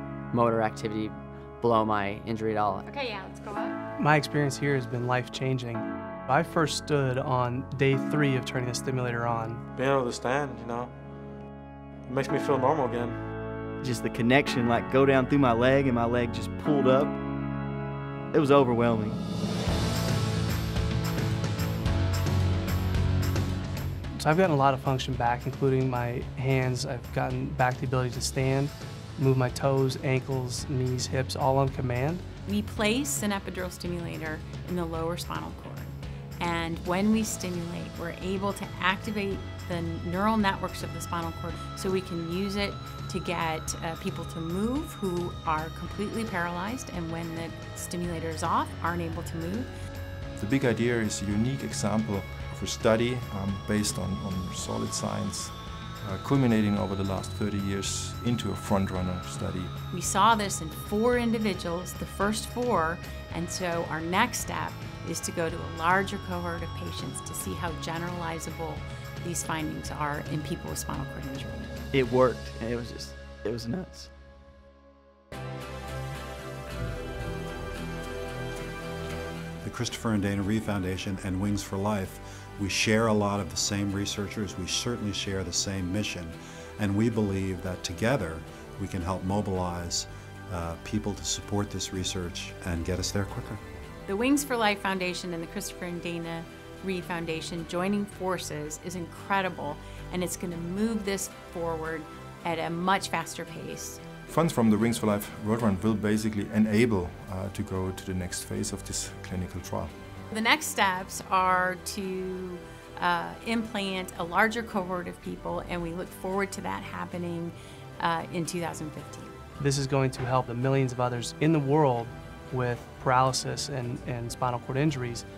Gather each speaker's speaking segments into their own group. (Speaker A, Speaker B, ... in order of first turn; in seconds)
Speaker A: 0.3-2.8
Speaker B: 2.9-3.8, 32.5-49.7, 59.9-71.7, 94.0-104.0, 110.3-119.3
Speaker C: 4.0-9.6, 24.2-32.2, 119.6-125.2
Speaker D: 9.7-10.9, 12.1-13.2
Speaker E: 13.8-17.2, 18.3-19.2, 71.9-74.1
Speaker F: 50.4-59.7, 104.2-109.9
Speaker G: 79.6-93.6